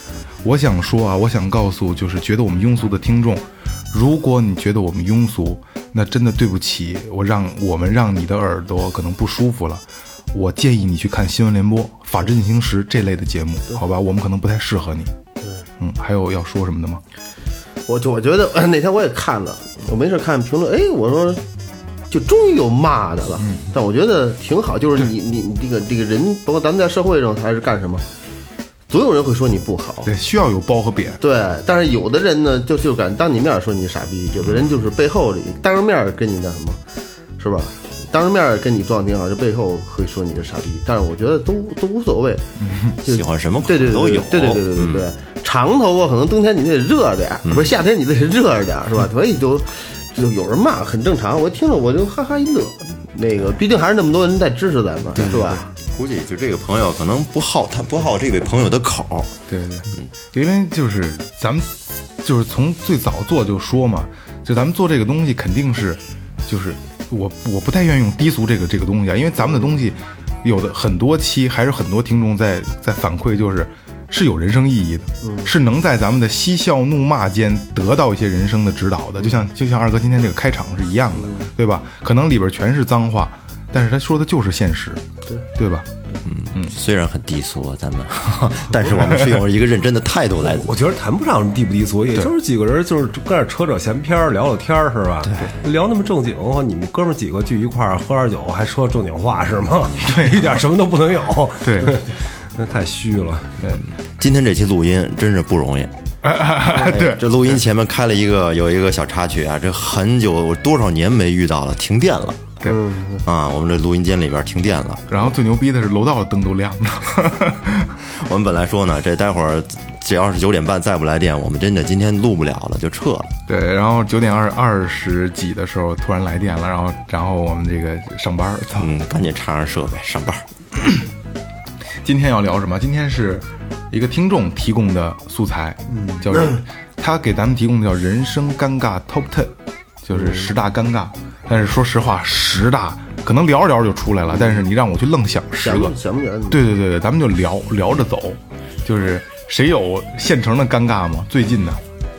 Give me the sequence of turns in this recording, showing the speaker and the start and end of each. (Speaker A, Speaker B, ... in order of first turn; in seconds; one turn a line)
Speaker A: 0.4-15.1
Speaker A: 15.8-17.0
Speaker B: 17.9-21.4
Speaker B: 22.1-28.1
Speaker B: 28.9-30.1
Speaker A: 30.1-31.2
Speaker B: 31.2-36.8
Speaker B: 37.4-42.5
Speaker A: 42.6-42.9
Speaker B: 43.0-55.7
Speaker C: 43.0-45.1
Speaker C: 47.4-47.7
Speaker A: 55.2-55.6
Speaker C: 55.9-59.3
Speaker A: 59.5-61.7
Speaker A: 62.2-85.0
Speaker B: 75.2-75.5
Speaker B: 81.2-81.5
Speaker A: 85.5-85.9
Speaker C: 86.2-90.7
Speaker D: 90.4-103.6
Speaker A: 100.0-100.5
Speaker A: 101.6-102.0
Speaker C: 104.2-105.9
Speaker A: 106.2-107.2
Speaker C: 106.7-112.5
Speaker B: 112.6-113.2
Speaker C: 113.2-115.0
Speaker A: 115.1-117.9
Speaker C: 118.1-123.3
Speaker A: 123.5-128.9
Speaker C: 128.8-130.4
Speaker A: 132.0-139.5
Speaker B: 135.9-136.6
Speaker A: 140.0-145.9
Speaker B: 140.1-140.5
Speaker B: 144.3-144.6
Speaker B: 145.6-146.6
Speaker A: 146.5-151.8